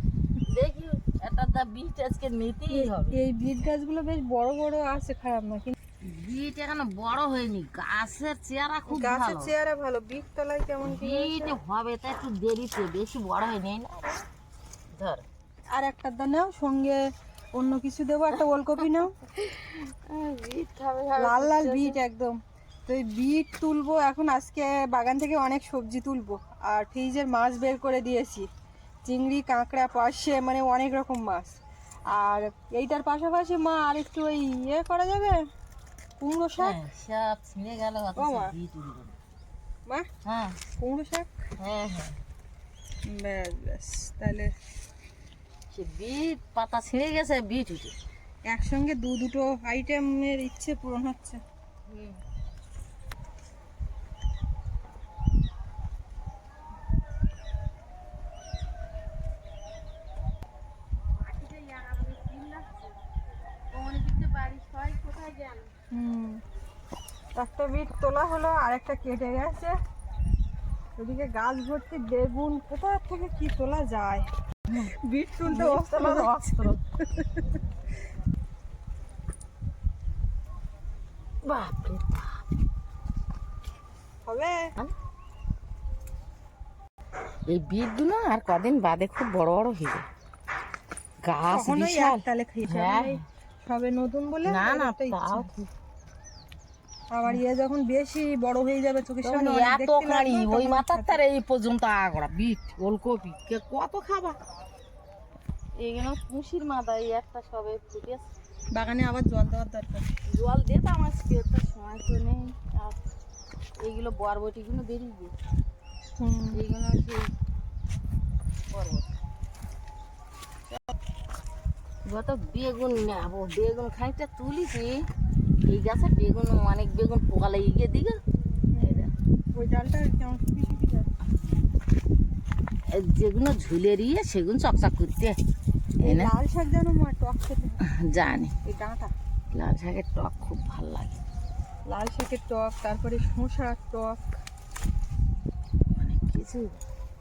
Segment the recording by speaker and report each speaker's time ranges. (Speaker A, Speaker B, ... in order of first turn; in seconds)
Speaker A: 0.5-3.2, 6.0-9.5, 10.8-14.3, 14.9-15.2, 19.4-22.0, 36.6-39.2, 40.2-40.6, 41.6-42.2, 45.7-48.0, 51.9-52.2, 61.2-62.9, 63.7-65.7, 75.5-76.8, 81.4-82.4, 87.5-90.1, 91.2-93.2, 94.5-95.7, 99.2-104.4, 105.8-108.3, 110.3-113.0, 113.8-115.3, 116.5-117.3, 118.7-119.1, 122.1-125.1, 125.6-128.2, 128.8-129.1, 131.2-131.7, 132.9-135.4, 136.0-136.3, 137.8-138.5, 139.5-141.2, 145.9-146.8
Speaker B: 2.7-5.8, 8.9-11.6, 15.7-17.0, 17.5-19.1, 21.2-28.5, 29.1-31.6, 32.1-35.4, 36.2-36.8, 38.2-38.5, 40.8-41.3, 43.1-44.5, 48.5-51.4, 65.9-66.4, 67.3-69.8, 71.0-74.3, 74.9-77.4, 84.3-84.7, 91.5-95.5, 97.1-101.2, 108.7-110.1, 116.2-116.6, 128.7-131.1, 136.0-137.8, 138.7-139.1, 141.9-144.4